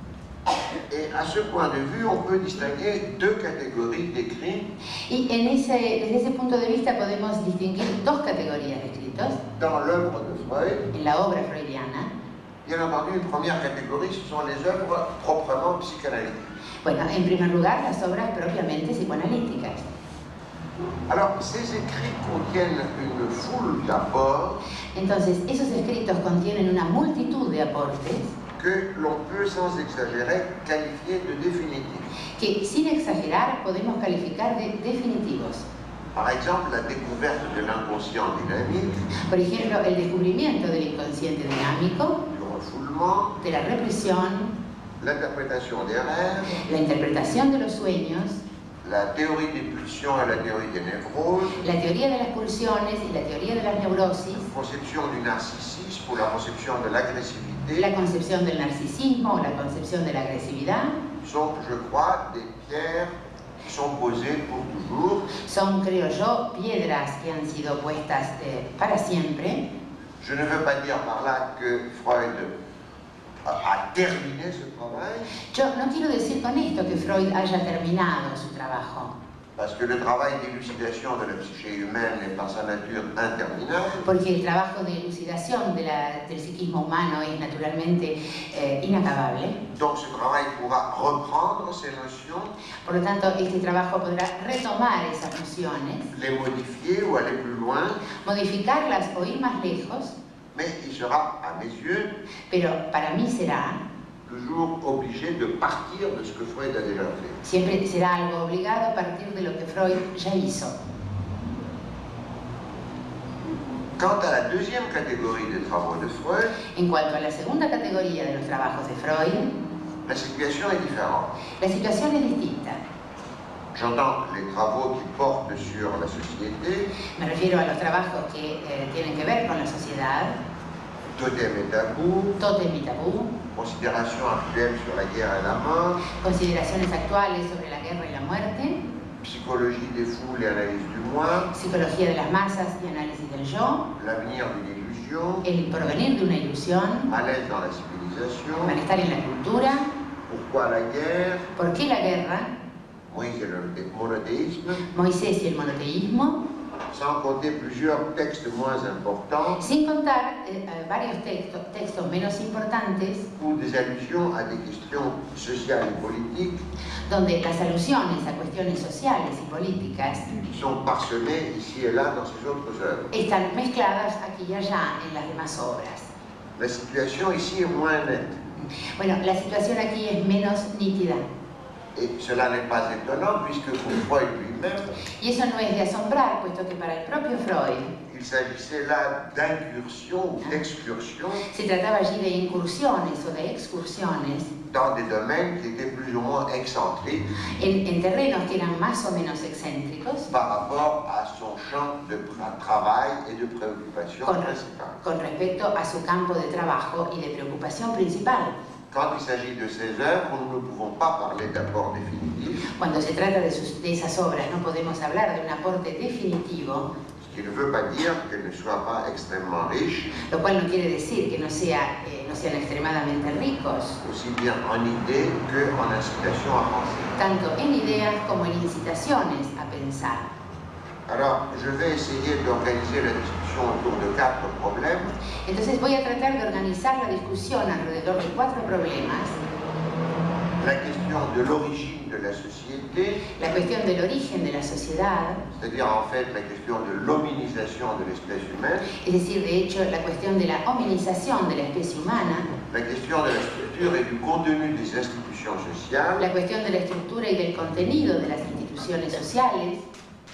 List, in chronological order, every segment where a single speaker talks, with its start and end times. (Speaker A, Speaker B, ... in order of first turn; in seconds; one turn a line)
Speaker A: 0.9-4.7
Speaker B: 5.1-9.4
Speaker A: 9.6-10.9
Speaker B: 10.9-12.1
Speaker A: 12.6-16.5
Speaker B: 16.8-19.9
Speaker A: 21.1-24.6
Speaker B: 24.9-28.3
Speaker A: 28.6-32.0
Speaker B: 32.4-35.7
Speaker A: 36.1-39.1
Speaker B: 39.3-42.2
Speaker A: 42.3-43.4
Speaker B: 43.4-44.5
Speaker A: 45.0-46.6
Speaker B: 46.6-48.4
Speaker A: 48.8-51.6
Speaker B: 51.6-54.5
Speaker A: 54.4-57.9
Speaker B: 57.8-61.0
Speaker A: 61.2-65.3
Speaker B: 65.4-69.7
Speaker A: 70.2-72.5
Speaker A: 73.4-75.3
Speaker B: 75.5-79.1
Speaker A: 79.5-84.0
Speaker B: 84.0-89.6
Speaker A: 89.7-92.5
Speaker B: 92.8-96.1
Speaker A: 96.1-98.0
Speaker B: 98.1-100.2
Speaker A: 100.5-102.2
Speaker B: 102.5-103.8
Speaker A: 104.2-107.4
Speaker B: 107.4-110.8
Speaker A: 114.0-116.6
Speaker B: 116.7-119.5
Speaker A: 120.0-121.3
Speaker B: 121.6-122.8
Speaker A: 123.7-126.9
Speaker B: 127.2-130.3
Speaker A: 131.1-132.4
Speaker B: 132.4-133.3
Speaker A: 133.5-136.0
Speaker B: 136.1-138.8
Speaker A: 139.2-141.5
Speaker B: 141.5-143.9
Speaker A: 144.0-145.4
Speaker B: 145.4-147.1
Speaker A: 147.1-148.8
Speaker B: 148.6-149.9
Speaker A: 150.3-151.5
Speaker B: 151.5-152.5
Speaker A: 153.1-154.8
Speaker B: 154.9-156.4
Speaker A: 156.9-159.6
Speaker B: 159.6-163.3
Speaker A: 163.3-166.6
Speaker B: 167.1-170.3
Speaker A: 170.4-173.1
Speaker B: 173.1-176.1
Speaker A: 176.6-178.4
Speaker B: 178.9-181.2
Speaker A: 181.9-184.9
Speaker B: 185.2-187.9
Speaker A: 188.1-191.4
Speaker B: 191.5-194.5
Speaker A: 194.7-197.3
Speaker B: 197.5-200.3
Speaker A: 200.3-205.0
Speaker B: 204.2-208.5
Speaker A: 208.9-212.6
Speaker B: 212.8-216.9
Speaker A: 217.2-220.1
Speaker B: 220.2-224.0
Speaker A: 224.0-227.2
Speaker B: 227.2-230.3
Speaker A: 231.1-235.2
Speaker B: 235.4-239.4
Speaker A: 240.6-243.2
Speaker B: 243.4-245.4
Speaker A: 245.5-248.9
Speaker B: 248.9-252.5
Speaker A: 252.7-256.2
Speaker B: 256.2-259.8